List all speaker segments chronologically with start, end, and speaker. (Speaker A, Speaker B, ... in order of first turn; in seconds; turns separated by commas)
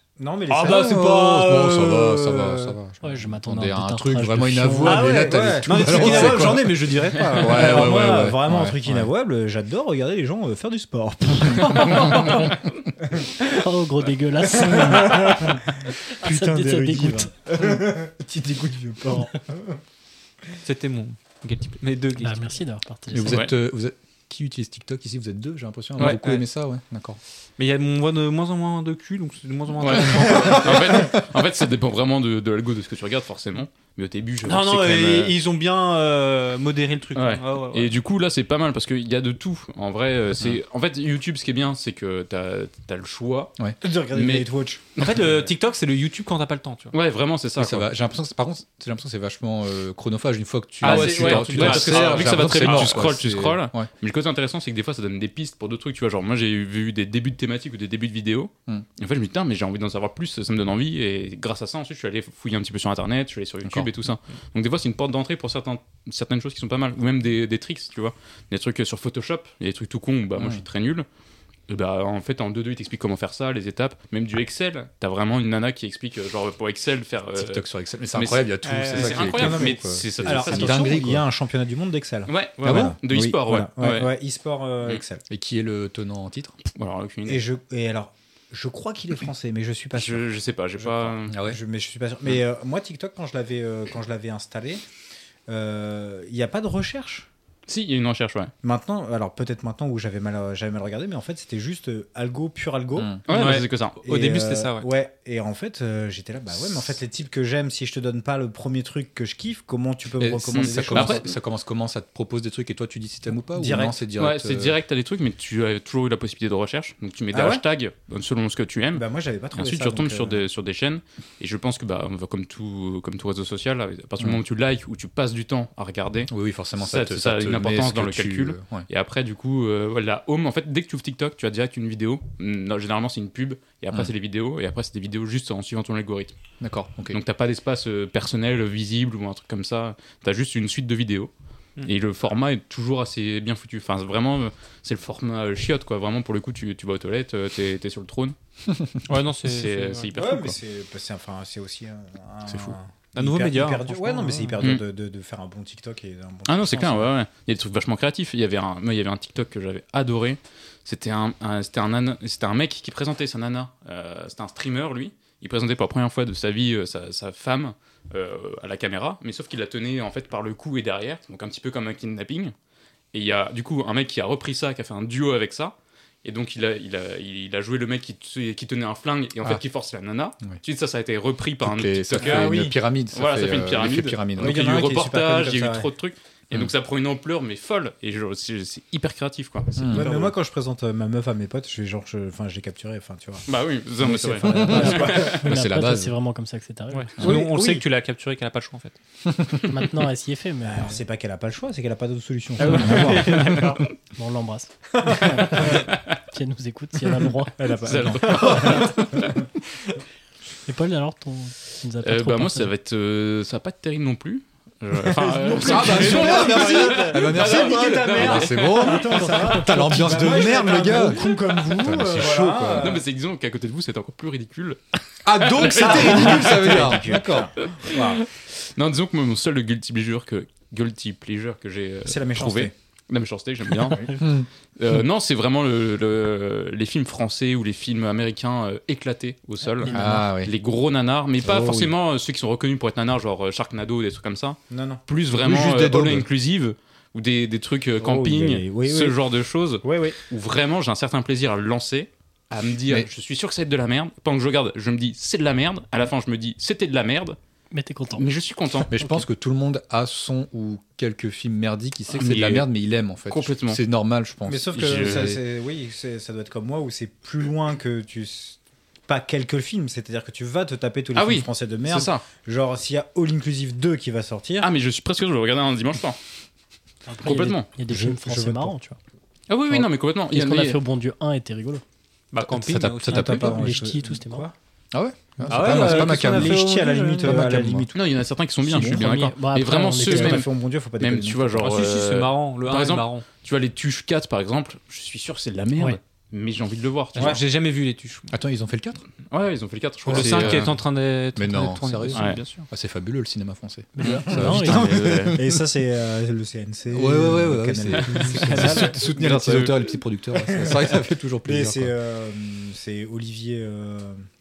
Speaker A: 0.2-2.8, Speaker B: 0.5-2.3, Speaker C: 0.5-9.1, Speaker D: 3.0-5.1, Speaker B: 4.8-8.0, Speaker A: 4.8-12.3, Speaker D: 13.4-15.6, Speaker A: 14.5-15.6, Speaker D: 16.1-17.7, Speaker A: 16.1-19.8, Speaker B: 20.6-22.6, Speaker D: 22.2-23.4, Speaker C: 23.1-27.2, Speaker E: 23.3-23.5, Speaker B: 26.0-26.4, Speaker B: 27.6-31.1, Speaker E: 29.8-35.4, Speaker B: 34.4-37.9, Speaker E: 37.1-43.5, Speaker A: 43.8-44.8, Speaker E: 44.1-45.2, Speaker B: 45.0-46.9, Speaker E: 46.9-47.9, Speaker C: 47.6-53.9, Speaker B: 50.8-53.0, Speaker E: 50.8-71.0, Speaker C: 70.4-70.6, Speaker E: 71.7-81.0, Speaker C: 77.4-81.2, Speaker B: 78.6-79.6, Speaker A: 79.0-85.2, Speaker E: 82.3-84.1, Speaker C: 82.6-83.0, Speaker C: 85.3-86.6, Speaker E: 86.8-87.4, Speaker A: 87.2-90.2, Speaker E: 90.0-91.4, Speaker A: 90.8-94.8, Speaker C: 91.3-91.6, Speaker A: 95.5-97.3, Speaker E: 97.7-98.5, Speaker A: 98.6-103.2, Speaker C: 103.0-103.2, Speaker E: 103.3-104.0, Speaker B: 103.3-104.9, Speaker A: 104.0-111.2, Speaker C: 110.2-114.8, Speaker E: 110.5-111.2, Speaker A: 113.5-114.0, Speaker E: 114.2-136.3, Speaker A: 117.3-117.6, Speaker A: 118.9-120.5, Speaker C: 126.3-128.9, Speaker C: 136.6-137.2, Speaker E: 137.1-141.3, Speaker E: 141.8-148.3, Speaker B: 149.1-150.1, Speaker E: 149.4-150.6, Speaker A: 150.1-157.1, Speaker B: 153.1-154.6, Speaker E: 156.5-172.5, Speaker E: 173.1-190.1, Speaker C: 181.6-184.6, Speaker A: 182.2-182.8, Speaker A: 184.3-185.9, Speaker C: 189.8-190.3, Speaker A: 189.9-195.4, Speaker E: 193.4-195.4, Speaker D: 194.6-197.1, Speaker C: 195.4-196.1, Speaker B: 196.9-199.0, Speaker A: 197.2-197.8, Speaker D: 199.7-201.0, Speaker A: 200.6-203.5, Speaker B: 202.6-203.8, Speaker D: 204.2-207.8, Speaker B: 204.9-205.7, Speaker E: 205.7-206.1, Speaker A: 207.6-209.1, Speaker E: 207.8-209.3, Speaker B: 208.2-209.1, Speaker D: 210.7-212.7, Speaker E: 212.0-218.9, Speaker A: 215.1-223.0, Speaker C: 215.5-223.0, Speaker D: 219.0-220.4, Speaker E: 222.7-224.8, Speaker C: 225.2-227.5, Speaker E: 225.3-226.9, Speaker A: 225.7-228.2, Speaker E: 227.6-234.0, Speaker A: 232.0-232.7, Speaker C: 234.2-234.5, Speaker E: 234.8-257.4, Speaker D: 239.8-240.2, Speaker C: 239.8-240.5, Speaker A: 241.4-241.9, Speaker A: 244.7-245.0, Speaker C: 245.3-246.3, Speaker A: 248.0-249.2, Speaker A: 249.8-250.2, Speaker D: 257.7-258.3, Speaker E: 258.1-258.9, Speaker C: 258.9-265.4, Speaker E: 262.1-262.7, Speaker E: 263.3-263.8, Speaker A: 264.4-274.7, Speaker E: 264.7-265.4, Speaker E: 271.1-272.2, Speaker E: 274.6-276.2, Speaker D: 277.1-279.0, Speaker E: 277.2-277.7, Speaker A: 277.9-278.7, Speaker E: 279.5-280.8, Speaker D: 279.7-281.8, Speaker B: 282.3-283.5, Speaker C: 282.4-283.5, Speaker A: 283.1-284.5, Speaker D: 283.2-284.5, Speaker C: 284.9-286.7, Speaker B: 285.5-287.5, Speaker A: 285.5-289.0, Speaker C: 287.2-287.9, Speaker E: 287.9-297.4, Speaker D: 288.7-290.4, Speaker A: 290.0-291.8, Speaker B: 291.6-293.2, Speaker B: 297.1-298.3, Speaker C: 298.3-299.1, Speaker E: 299.3-300.7, Speaker C: 300.1-300.8, Speaker B: 300.1-302.7, Speaker C: 301.4-305.6, Speaker E: 302.1-302.4, Speaker D: 303.9-304.9, Speaker E: 304.0-305.4, Speaker A: 304.4-309.1, Speaker C: 306.9-311.9, Speaker B: 308.2-309.1, Speaker E: 309.1-309.7, Speaker A: 310.3-314.2